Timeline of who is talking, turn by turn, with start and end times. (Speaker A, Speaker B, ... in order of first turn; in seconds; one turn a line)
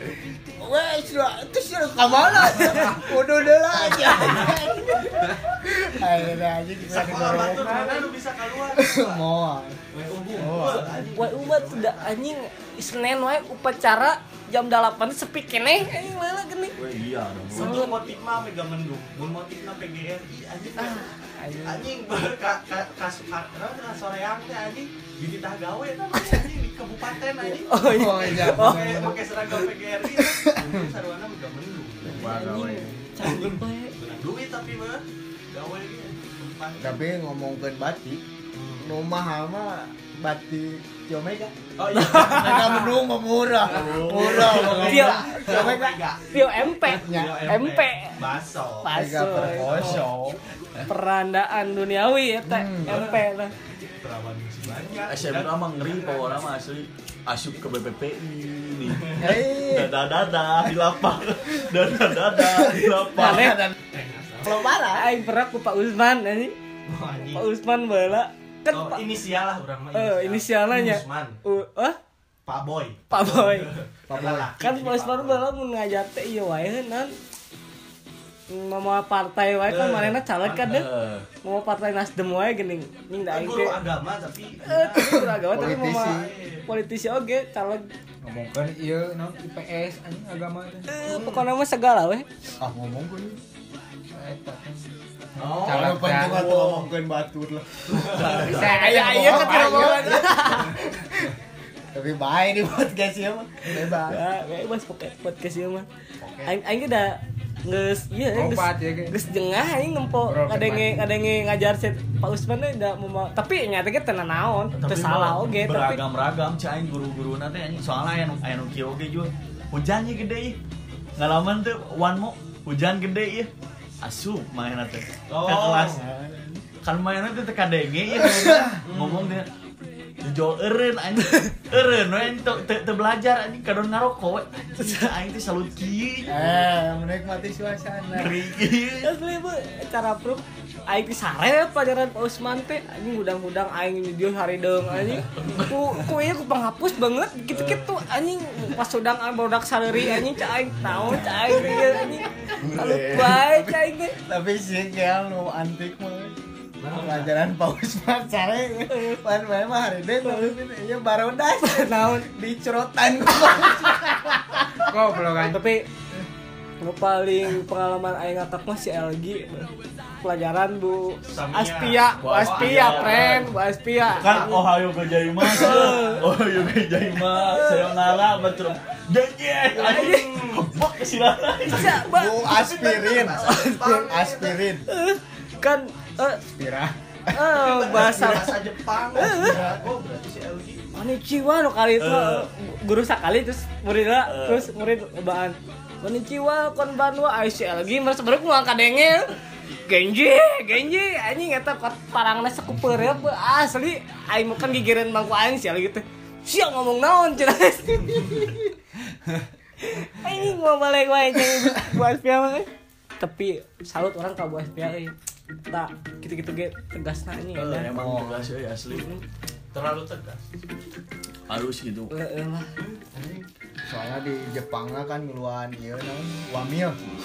Speaker A: 0.6-8.1
Speaker B: 3.9-4.6
Speaker B: 6.9-9.2
Speaker A: 8.7-9.8
Speaker B: 9.9-12.1
Speaker A: 10.3-11.1
Speaker C: 11.1-16.8
Speaker D: 16.8-17.9
Speaker B: 17.5-21.1
Speaker C: 17.6-18.0
Speaker C: 20.8-21.9
Speaker B: 21.6-32.4
Speaker C: 27.5-29.2
Speaker A: 27.8-29.2
Speaker A: 30.2-30.9
Speaker A: 32.1-32.4
Speaker C: 32.1-33.9
Speaker E: 32.2-32.9
Speaker B: 33.2-37.0
Speaker A: 36.8-38.2
Speaker B: 38.5-38.9
Speaker A: 38.8-46.0
Speaker B: 41.8-43.0
Speaker D: 42.2-42.7
Speaker D: 43.6-44.9
Speaker B: 43.8-46.2
Speaker C: 44.9-45.6
Speaker C: 46.3-48.2
Speaker A: 46.9-47.5
Speaker B: 47.0-50.2
Speaker C: 48.8-50.1
Speaker A: 48.9-50.4
Speaker C: 50.9-53.5
Speaker A: 52.5-53.1
Speaker B: 52.9-53.1
Speaker B: 54.0-56.5
Speaker D: 55.1-63.8
Speaker B: 59.0-59.3
Speaker A: 59.2-60.0
Speaker A: 62.4-63.8
Speaker C: 63.1-63.7
Speaker B: 63.9-64.7
Speaker A: 64.4-65.1
Speaker C: 64.9-66.5
Speaker B: 66.9-67.5
Speaker C: 67.3-69.0
Speaker B: 68.7-71.4
Speaker C: 69.9-72.0
Speaker B: 72.5-75.5
Speaker C: 73.1-73.7
Speaker A: 74.1-74.5
Speaker C: 74.6-77.1
Speaker C: 78.5-80.9
Speaker B: 79.7-80.6
Speaker D: 80.5-81.3
Speaker C: 81.4-83.8
Speaker B: 83.3-86.7
Speaker C: 84.7-87.9
Speaker A: 85.4-86.3
Speaker E: 88.2-91.0
Speaker C: 90.9-92.3
Speaker A: 92.6-93.4
Speaker E: 94.1-94.8
Speaker E: 95.4-96.5
Speaker B: 95.4-96.8
Speaker A: 95.6-101.3
Speaker D: 98.0-99.0
Speaker B: 98.0-98.6
Speaker C: 98.4-100.8
Speaker E: 98.5-100.0
Speaker A: 101.9-104.2
Speaker C: 103.9-105.9
Speaker C: 106.5-116.0
Speaker E: 108.3-109.2
Speaker E: 110.2-111.1
Speaker D: 114.7-120.6
Speaker D: 121.2-123.5
Speaker D: 124.0-126.0
Speaker B: 125.3-126.0
Speaker A: 125.9-126.6
Speaker D: 126.8-129.5
Speaker A: 128.3-128.8
Speaker B: 128.8-129.4
Speaker D: 130.2-136.7
Speaker C: 134.8-135.1
Speaker A: 136.3-138.4
Speaker D: 138.1-139.1
Speaker C: 139.0-154.2
Speaker D: 145.4-145.7
Speaker D: 150.9-151.8
Speaker B: 151.4-152.6
Speaker D: 152.6-153.4
Speaker A: 153.1-156.3
Speaker B: 156.8-157.3
Speaker A: 156.9-164.9
Speaker C: 158.9-159.2
Speaker C: 160.2-160.6
Speaker C: 161.6-162.3
Speaker E: 164.8-165.6
Speaker C: 165.3-165.9
Speaker C: 166.8-169.7
Speaker C: 170.2-174.6
Speaker B: 171.3-173.4
Speaker D: 172.2-173.5
Speaker D: 174.2-182.0
Speaker B: 174.3-174.6
Speaker C: 175.4-176.2
Speaker B: 175.5-176.3
Speaker C: 177.5-177.9
Speaker B: 179.7-180.5
Speaker C: 179.8-180.6
Speaker C: 181.7-182.6
Speaker B: 181.7-184.6
Speaker A: 181.9-184.9
Speaker C: 183.3-184.1
Speaker C: 184.9-186.4
Speaker E: 186.6-186.9
Speaker A: 186.6-186.9
Speaker C: 187.3-188.6
Speaker B: 187.4-190.9
Speaker C: 189.1-189.6
Speaker A: 189.3-189.8
Speaker C: 190.9-208.7
Speaker D: 192.0-192.5
Speaker D: 194.3-194.7
Speaker C: 209.8-212.7
Speaker C: 213.2-215.1
Speaker C: 215.7-217.9
Speaker D: 217.6-219.1
Speaker A: 217.9-218.5
Speaker C: 218.9-219.2
Speaker B: 219.7-220.5
Speaker D: 221.5-222.1
Speaker C: 222.1-222.7
Speaker B: 222.8-223.5
Speaker A: 223.8-227.0